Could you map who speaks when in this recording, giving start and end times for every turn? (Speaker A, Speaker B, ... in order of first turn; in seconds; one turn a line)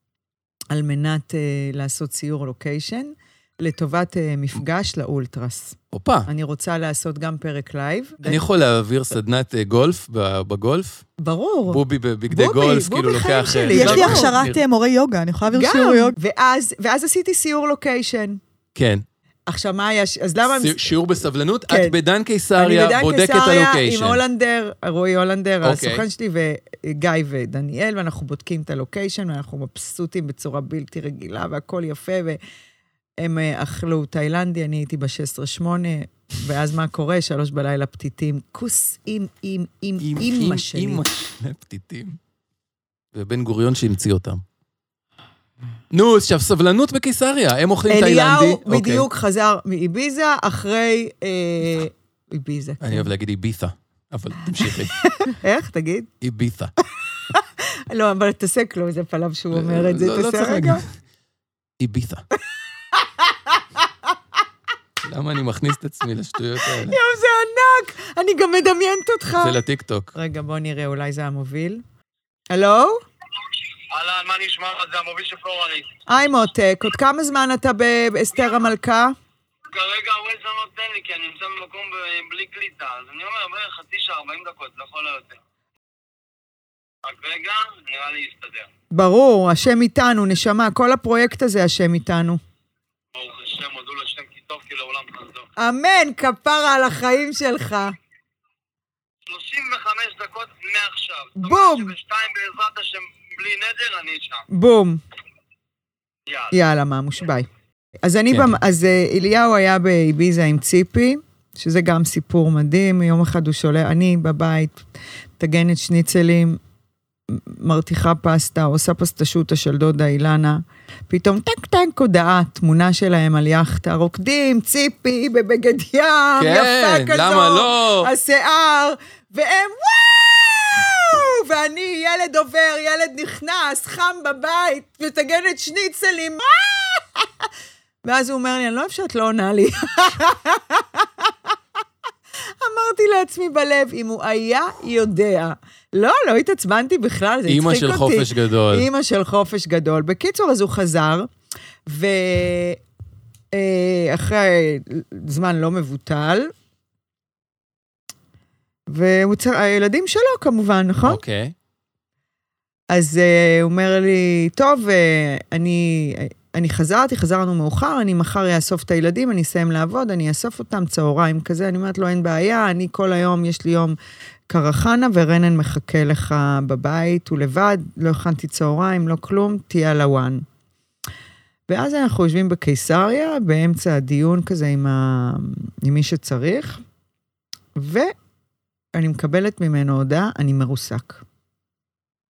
Speaker A: 0.7-8.4
Speaker B: 5.9-6.3
Speaker B: 8.2-11.1
Speaker A: 11.2-14.3
Speaker B: 11.7-14.6
Speaker C: 13.7-16.1
Speaker A: 15.5-18.4
Speaker B: 18.8-19.0
Speaker A: 19.5-20.9
Speaker B: 20.5-24.2
Speaker A: 21.7-22.0
Speaker A: 22.6-32.4
Speaker B: 25.6-26.1
Speaker A: 33.2-41.0
Speaker B: 40.0-42.2
Speaker B: 43.1-44.4
Speaker B: 45.9-49.1
Speaker A: 47.9-53.1
Speaker B: 52.8-55.0
Speaker A: 54.6-56.1
Speaker B: 56.2-56.7
Speaker A: 57.3-60.8
Speaker B: 59.5-60.9
Speaker B: 61.8-62.2
Speaker A: 63.0-63.5
Speaker B: 65.0-67.0
Speaker A: 66.7-69.6
Speaker B: 69.4-70.1
Speaker A: 70.2-71.8
Speaker A: 72.5-73.0
Speaker D: 73.9-75.9
Speaker A: 76.1-79.2
Speaker D: 79.7-85.4
Speaker D: 87.0-88.7
Speaker A: 88.9-92.4
Speaker D: 93.1-95.5
Speaker A: 95.6-98.0
Speaker D: 99.3-104.5
Speaker A: 101.4-101.9
Speaker A: 104.5-105.0
Speaker D: 106.3-106.5
Speaker A: 106.5-107.5
Speaker A: 108.0-114.8
Speaker A: 115.4-116.6
Speaker A: 117.3-137.3
Speaker B: 126.4-128.1
Speaker A: 138.0-141.3
Speaker A: 142.6-151.3
Speaker B: 147.5-148.9
Speaker A: 151.9-152.8
Speaker A: 153.5-156.5
Speaker A: 158.9-161.2
Speaker B: 161.1-161.5
Speaker A: 162.9-174.0
Speaker A: 174.5-180.4
Speaker A: 181.7-186.8
Speaker A: 187.8-188.1
Speaker A: 188.9-191.2